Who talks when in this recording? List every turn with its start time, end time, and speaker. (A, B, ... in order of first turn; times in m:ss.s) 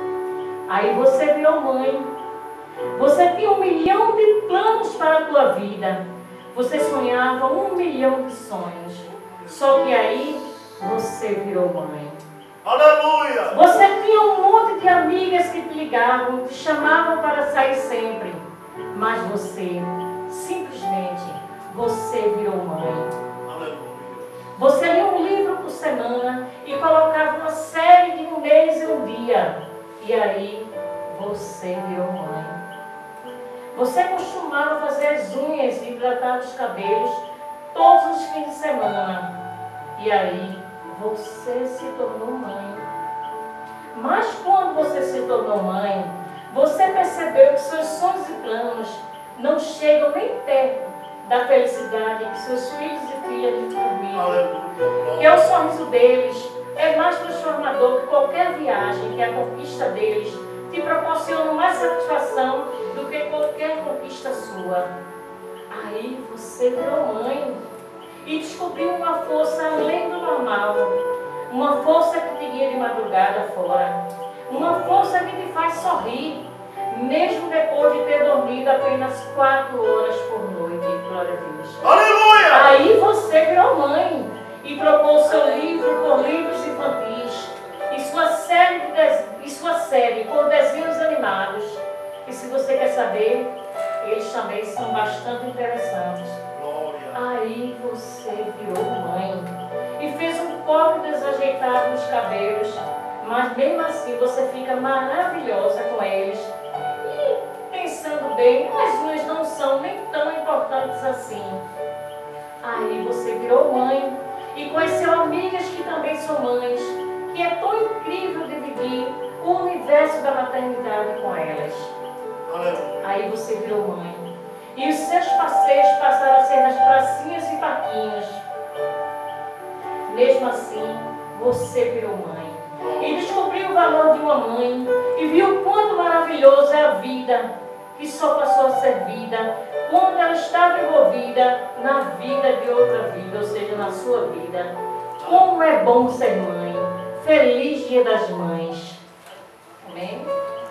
0:00.7-0:02.1 A
0:02.9-0:12.2 A
0:12.6-0:13.7 B
0:13.5-0:23.1 A
0:23.4-0:24.3 B
0:24.6-0:32.6 A
0:33.7-0:39.3 A
0:40.0-0:42.9 A
0:43.9-0:54.4 A
0:54.1-0:55.6 B
0:55.2-1:04.9 A
1:05.7-1:07.6 A
1:08.2-1:11.0 A
1:11.5-1:21.8 A
1:14.5-1:15.2 B
1:21.8-1:22.8 B
1:22.5-1:36.4 A
1:36.5-1:37.2 B
1:37.1-1:51.6 A
1:52.6-2:01.9 A
2:02.5-2:03.2 B
2:03.0-2:08.4 A
2:10.1-2:29.0 A
2:12.8-2:13.3 B
2:25.2-2:25.5 B
2:29.8-2:30.3 A